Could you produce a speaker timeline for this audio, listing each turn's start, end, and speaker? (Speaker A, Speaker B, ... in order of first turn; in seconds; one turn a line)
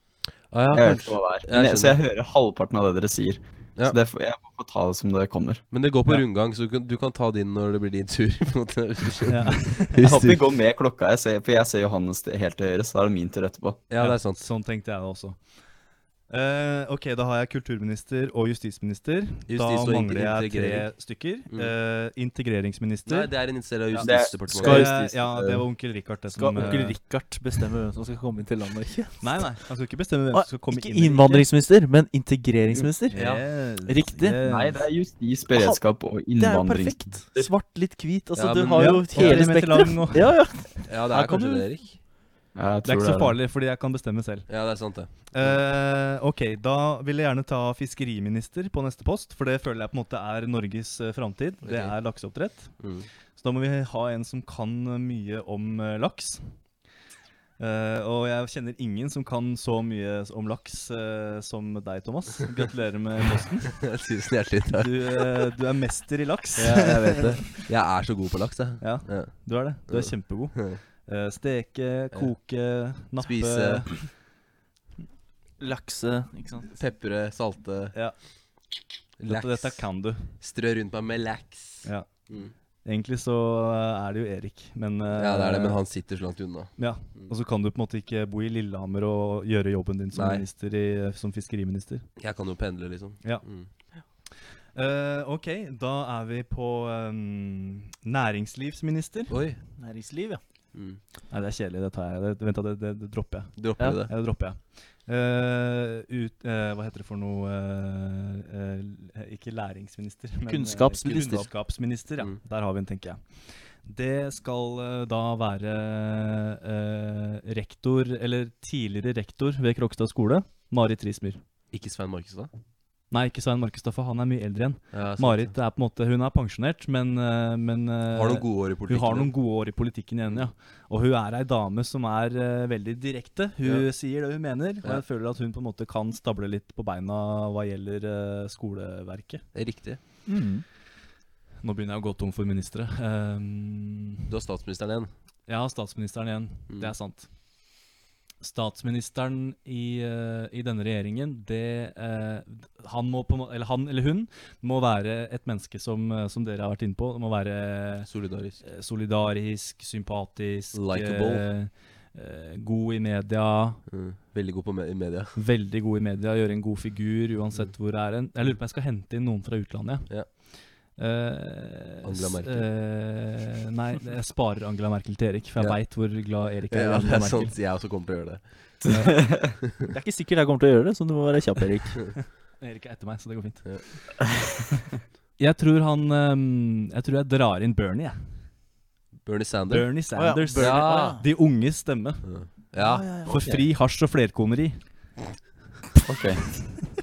Speaker A: 0.5-2.0
Speaker B: 0.7-5.6
Speaker A: 5.7-10.4
Speaker C: 9.3-10.1
Speaker B: 10.0-13.8
Speaker A: 13.9-14.4
Speaker C: 14.0-15.4
Speaker C: 16.3-23.3
Speaker A: 19.5-20.9
Speaker A: 23.1-24.9
Speaker C: 23.9-27.0
Speaker B: 24.0-25.1
Speaker D: 24.5-25.1
Speaker D: 26.3-29.5
Speaker C: 29.2-31.4
Speaker D: 30.3-33.2
Speaker C: 33.1-34.8
Speaker A: 33.1-33.4
Speaker D: 33.8-34.4
Speaker B: 34.5-37.5
Speaker D: 35.5-35.8
Speaker D: 36.3-41.7
Speaker A: 38.4-39.4
Speaker C: 38.7-40.5
Speaker A: 40.9-41.9
Speaker B: 42.5-43.4
Speaker C: 42.8-44.5
Speaker A: 44.5-45.6
Speaker C: 45.3-52.8
Speaker A: 51.6-51.9
Speaker A: 52.8-53.1
Speaker C: 53.4-56.5
Speaker C: 57.6-63.9
Speaker A: 63.7-65.5
Speaker C: 64.8-67.5
Speaker A: 66.6-70.8
Speaker C: 68.8-74.1
Speaker A: 73.2-73.9
Speaker D: 75.6-76.7
Speaker A: 76.7-78.0
Speaker A: 79.2-79.8
Speaker C: 79.3-80.2
Speaker A: 80.4-82.5
Speaker C: 82.8-85.8
Speaker A: 85.1-87.3
Speaker C: 86.8-92.0
Speaker A: 90.1-90.4
Speaker A: 92.2-93.7
Speaker C: 94.7-99.4
Speaker A: 99.3-99.6
Speaker D: 99.8-100.4
Speaker A: 100.7-101.0
Speaker C: 101.3-103.5
Speaker A: 103.6-104.1
Speaker C: 104.0-113.2
Speaker D: 110.5-111.5
Speaker C: 113.8-121.4
Speaker A: 121.7-122.5
Speaker C: 123.1-139.4
Speaker A: 124.9-125.5
Speaker A: 128.1-129.3
Speaker A: 139.5-140.0
Speaker D: 140.3-140.6
Speaker C: 141.6-144.2
Speaker A: 144.3-145.1
Speaker C: 145.5-147.3
Speaker C: 148.4-158.1
Speaker A: 158.1-158.6
Speaker C: 158.6-163.8
Speaker A: 160.7-161.4
Speaker A: 163.9-165.3
Speaker C: 165.3-170.3
Speaker C: 171.0-177.5
Speaker A: 172.0-172.7
Speaker A: 176.7-178.4
Speaker B: 178.8-179.6
Speaker C: 178.9-179.1
Speaker D: 179.9-182.1
Speaker C: 182.6-183.7
Speaker B: 184.3-184.8
Speaker C: 185.4-188.2
Speaker A: 189.2-189.9
Speaker C: 189.7-192.2
Speaker D: 190.1-191.2
Speaker A: 190.5-191.2
Speaker A: 192.2-193.2
Speaker D: 192.8-193.7
Speaker C: 193.2-194.8
Speaker B: 196.0-196.4